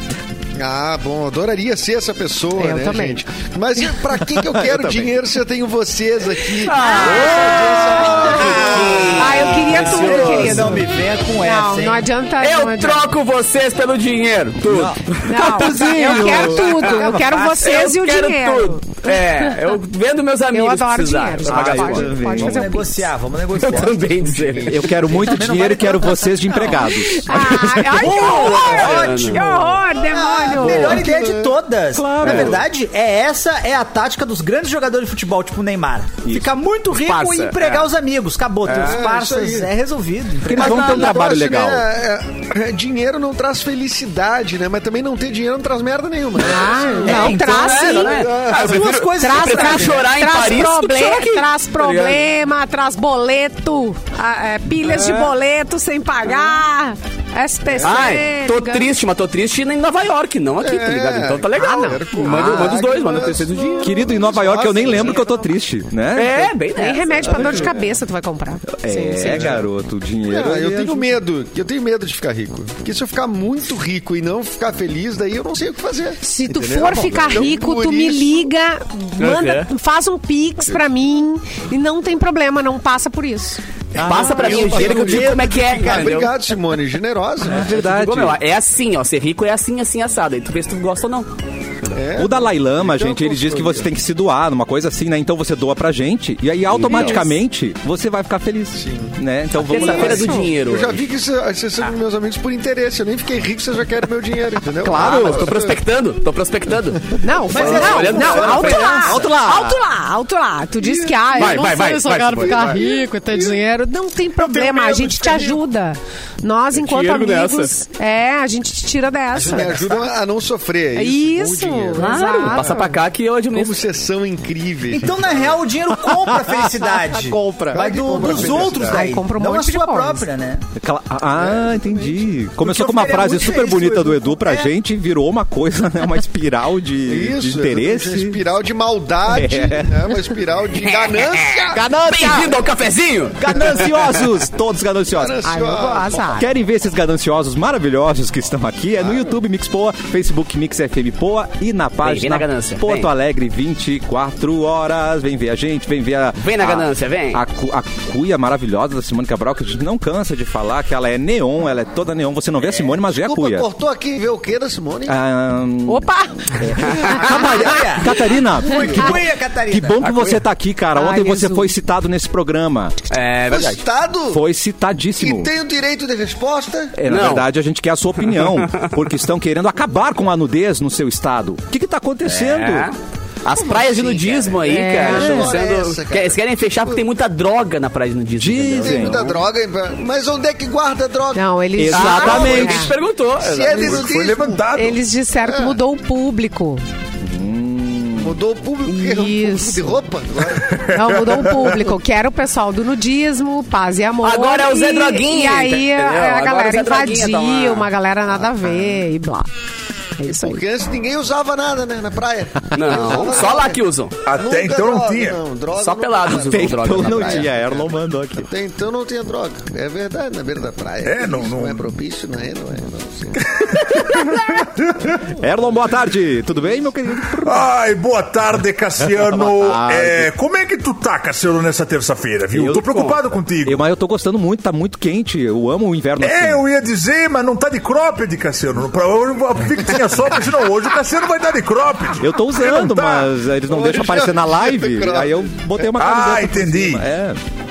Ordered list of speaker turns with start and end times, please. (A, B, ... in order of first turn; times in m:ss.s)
0:00.6-0:09.2 A
0:02.6-0:03.2 B
0:04.7-0:05.1 C
0:06.6-0:10.8 D
0:06.7-0:10.9 B
0:07.3-0:12.1 E
0:11.4-0:13.1 B
0:12.4-0:17.0 D
0:14.6-0:17.8 E
0:15.2-0:19.8 B
0:17.6-0:22.1 D
0:20.5-0:23.0 B
0:21.5-0:22.8 C
0:22.2-0:26.9 E
0:22.4-0:22.6 A
0:23.6-0:24.9 D
0:23.7-0:25.3 A
0:24.7-0:28.2 C
0:26.8-0:31.0 B
0:27.9-0:41.2 E
0:28.0-0:29.6 D
0:30.4-0:31.6 A
0:31.9-0:32.6 C
0:32.2-0:32.6 D
0:36.3-0:36.5 C
0:36.9-0:37.9 D
0:38.6-0:39.0 D
0:38.8-0:39.7 A
0:40.4-0:41.9 C
0:40.5-0:48.8 A
0:40.6-0:40.9 D
0:46.4-0:48.2 B
0:46.7-0:50.2 E
0:47.2-0:52.3 D
0:49.2-0:58.9 B
0:57.7-0:58.1 A
0:57.8-1:04.1 D
1:00.6-1:05.4 A
1:01.6-1:02.2 B
1:02.2-1:02.9 C
1:03.8-1:06.5 C
1:06.1-1:07.7 D
1:06.8-1:09.5 B
1:07.2-1:08.0 A
1:08.8-1:11.2 C
1:09.2-1:09.7 A
1:10.3-1:18.5 A
1:16.2-1:23.6 B
1:19.2-1:19.7 D
1:24.0-1:26.3 D
1:24.0-1:24.8 C
1:24.0-1:26.3 E
1:24.0-1:27.7 A
1:27.4-1:28.4 C
1:27.7-1:31.3 D
1:31.9-1:33.9 A
1:32.2-1:40.4 C
1:36.7-1:37.2 D
1:38.8-1:39.2 A
1:39.6-1:41.1 D
1:39.7-1:40.5 B
1:39.8-1:45.8 A
1:44.8-1:45.5 C
1:44.9-1:49.3 D
1:47.1-1:48.0 A
1:47.2-2:00.0 B
1:47.5-1:49.8 C
1:47.6-1:48.4 E
1:50.8-1:53.6 A
1:51.3-1:52.8 D
1:54.4-1:55.6 E
1:56.8-1:57.7 D
1:59.4-2:02.8 A
1:59.6-2:00.0 E
2:01.0-2:03.0 B
2:02.0-2:03.8 D
2:03.5-2:05.6 A
2:04.9-2:10.6 E
2:06.0-2:08.7 C
2:07.7-2:09.1 A
2:08.8-2:10.3 B
2:10.8-2:18.4 C
2:11.4-2:12.3 A
2:12.6-2:14.3 E
2:17.1-2:21.8 A
2:19.2-2:20.2 C
2:20.9-2:21.6 D
2:21.7-2:22.6 C
2:22.1-2:24.4 D
2:23.4-2:25.4 C
2:25.1-2:26.4 A
2:25.4-2:26.5 B
2:26.3-2:43.7 C
2:29.0-2:29.3 A
2:32.0-2:33.1 D
2:36.4-2:37.4 D
2:43.0-2:45.2 A
2:45.1-2:53.0 C
2:45.9-2:47.6 B
2:47.3-2:50.0 E
2:50.0-2:50.4 D
2:51.0-2:51.8 B
2:53.1-2:53.8 D
2:53.5-2:54.4 A
2:54.3-2:55.5 C
2:55.2-2:57.0 A
2:57.0-3:02.9 C
2:57.1-2:57.5 D
2:58.3-2:58.9 D
3:02.3-3:09.4 D
3:03.5-3:07.0 A
3:04.6-3:05.4 B
3:05.1-3:05.6 C
3:08.4-3:09.3 C
3:08.8-3:11.4 A
3:11.4-3:12.9 B
3:11.8-3:12.9 C
3:11.9-3:14.0 D
3:12.3-3:12.5 A
3:13.4-3:14.7 A
3:13.6-3:15.0 F
3:14.7-3:16.8 B
3:15.4-3:15.8 A
3:17.2-3:18.4 C
3:18.2-3:20.8 A
3:18.8-3:20.0 B
3:20.8-3:21.8 F
3:20.9-3:29.5 B
3:24.2-3:27.9 D
3:28.3-3:29.1 A
3:30.2-3:30.6 B
3:30.3-3:33.8 A
3:32.7-3:34.2 D
3:34.2-3:35.4 F
3:34.3-3:43.8 A
3:35.8-3:37.5 D
3:36.3-3:38.5 C
3:41.0-3:41.9 F
3:43.6-3:45.1 F
3:45.4-3:47.7 C
3:47.4-3:53.8 F
3:49.1-3:50.3 C
3:52.5-3:53.0 C
3:53.6-3:56.6 C
3:56.2-4:03.3 F
4:02.2-4:07.4 C
4:03.7-4:05.9 A
4:06.0-4:07.0 F